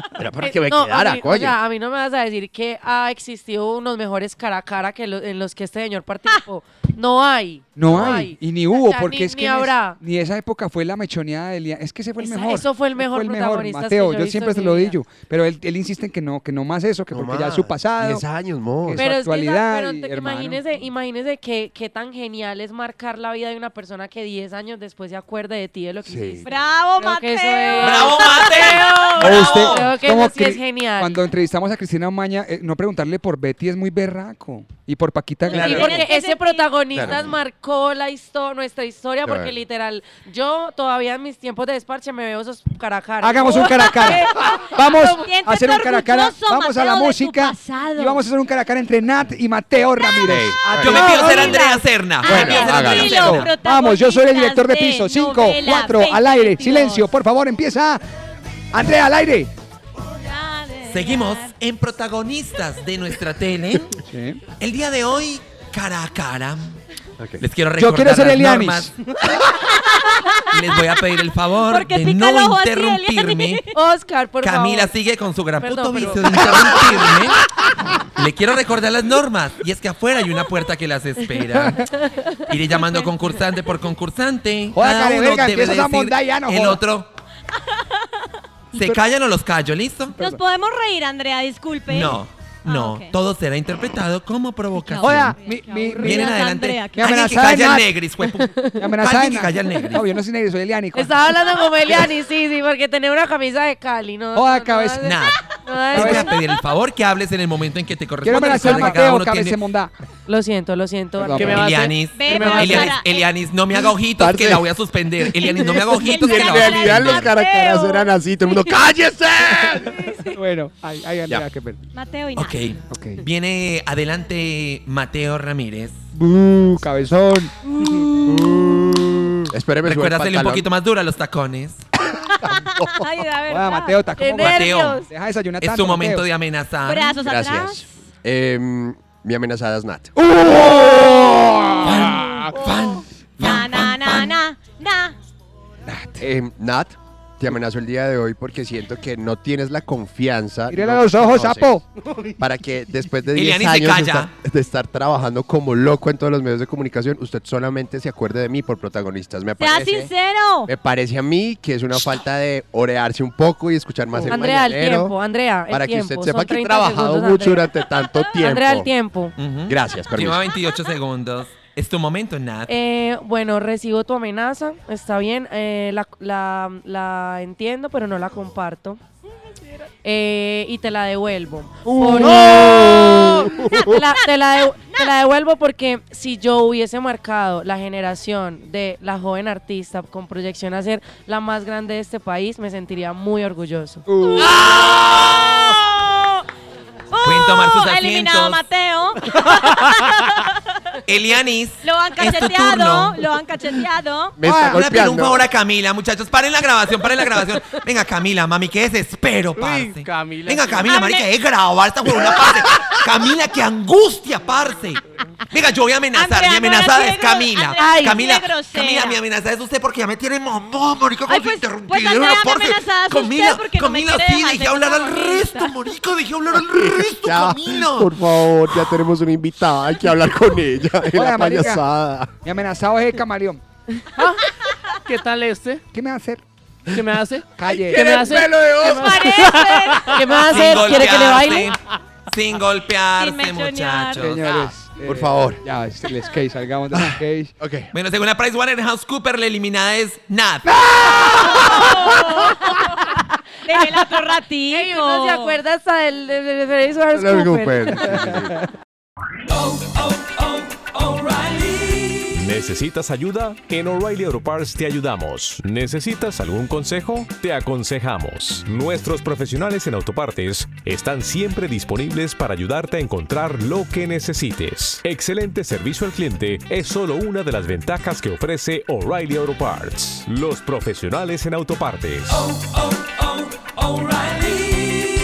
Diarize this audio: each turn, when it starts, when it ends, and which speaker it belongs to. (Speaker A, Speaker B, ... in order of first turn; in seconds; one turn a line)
Speaker A: 0.2-1.6
Speaker B: 0.4-9.9
Speaker C: 7.8-18.2
Speaker A: 7.8-8.3
Speaker B: 12.2-15.0
Speaker A: 17.1-19.1
Speaker C: 18.8-20.6
Speaker B: 19.0-28.7
Speaker C: 26.0-26.4
Speaker D: 26.4-29.9
Speaker E: 27.8-30.0
Speaker A: 28.0-28.7
Speaker C: 29.2-36.0
Speaker B: 29.7-31.1
Speaker D: 35.5-36.7
Speaker E: 35.5-36.0
Speaker B: 35.5-43.7
Speaker A: 36.9-37.4
Speaker A: 39.2-39.6
Speaker C: 43.2-51.6
Speaker D: 43.4-48.2
Speaker A: 43.9-44.1
Speaker A: 50.2-51.0
Speaker E: 50.8-53.5
Speaker D: 50.8-57.1
Speaker A: 52.2-53.1
Speaker C: 52.4-58.0
Speaker C: 58.7-59.5
Speaker D: 60.2-61.5
Speaker E: 60.9-63.9
Speaker C: 64.0-64.4
Speaker E: 64.6-66.8
Speaker E: 67.4-68.9
Speaker C: 67.8-68.9
Speaker D: 69.7-70.5
Speaker E: 70.5-73.6
Speaker D: 71.7-73.8
Speaker B: 73.7-74.9
Speaker E: 74.4-77.4
Speaker B: 75.6-76.8
Speaker A: 76.0-77.1
Speaker E: 78.2-81.9
Speaker E: 82.5-87.1
Speaker D: 82.7-83.1
Speaker C: 84.7-86.8
Speaker E: 88.7-90.2
Speaker D: 90.2-93.1
Speaker E: 91.9-95.3
Speaker D: 94.8-97.1
Speaker C: 95.0-96.3
Speaker B: 95.6-96.0
Speaker E: 96.0-100.1
Speaker C: 96.9-97.9
Speaker B: 98.5-98.8
Speaker C: 98.8-101.3
Speaker B: 100.9-106.2
Speaker C: 104.3-105.1
Speaker E: 105.0-109.6
Speaker C: 105.9-106.3
Speaker C: 108.2-109.9
Speaker B: 110.3-111.3
Speaker C: 111.2-111.7
Speaker F: 111.3-112.9
Speaker E: 111.4-117.3
Speaker D: 112.0-113.2
Speaker A: 113.7-114.7
Speaker A: 115.2-120.0
Speaker D: 115.6-118.9
Speaker C: 119.9-121.8
Speaker D: 120.0-120.4
Speaker D: 121.9-122.7
Speaker E: 122.3-125.9
Speaker C: 122.9-123.2
Speaker C: 126.1-127.8
Speaker D: 127.7-128.7
Speaker A: 128.2-130.7
Speaker E: 129.8-131.8
Speaker D: 132.4-134.1
Speaker A: 132.4-133.0
Speaker C: 133.5-136.3
Speaker B: 134.2-135.1
Speaker E: 134.4-135.1
Speaker E: 135.6-137.2
Speaker D: 136.8-137.8
Speaker A: 137.2-140.1
Speaker C: 140.2-142.4
Speaker D: 141.0-141.3
Speaker E: 141.8-144.4
Speaker D: 143.4-145.1
Speaker C: 145.8-146.3
Speaker A: 146.2-151.8
Speaker C: 150.7-151.8
Speaker A: 152.4-160.1
Speaker E: 153.3-154.3
Speaker D: 159.6-160.7
Speaker A: 160.7-168.9
Speaker B: 164.3-167.6
Speaker D: 167.7-168.5
Speaker B: 168.4-169.3
Speaker E: 169.4-172.8
Speaker A: 169.6-170.5
Speaker B: 172.7-179.0
Speaker B: 180.0-194.0
Speaker A: 181.8-183.9
Speaker D: 183.6-184.3
Speaker C: 194.1-194.5
Speaker D: 194.1-196.4
Speaker D: 197.1-200.8
Speaker E: 197.2-198.6
Speaker E: 201.1-203.2
Speaker D: 201.8-204.4
Speaker A: 204.4-205.5
Speaker C: 204.4-204.8
Speaker E: 204.6-228.2
Speaker F: 209.6-210.8
Speaker D: 210.8-211.3
Speaker D: 216.1-219.2
Speaker B: 217.8-218.1
Speaker D: 221.3-225.7
Speaker A: 226.6-232.3
Speaker E: 228.7-229.0
Speaker C: 231.1-231.8
Speaker C: 232.4-233.6
Speaker F: 235.1-235.8
Speaker C: 235.9-236.4
Speaker F: 236.9-241.4
Speaker C: 237.5-238.3
Speaker A: 237.7-239.4
Speaker D: 238.6-241.2
Speaker B: 240.3-241.7
Speaker E: 240.4-241.8
Speaker E: 242.3-244.7
Speaker D: 243.2-244.3
Speaker C: 244.1-247.5
Speaker A: 245.0-245.6
Speaker A: 246.9-247.9
Speaker E: 247.9-251.9
Speaker C: 250.7-251.5
Speaker D: 251.4-255.6
Speaker B: 253.7-254.2
Speaker B: 254.7-258.3
Speaker A: 257.1-258.6
Speaker F: 260.8-261.8
Speaker G: 262.3-282.6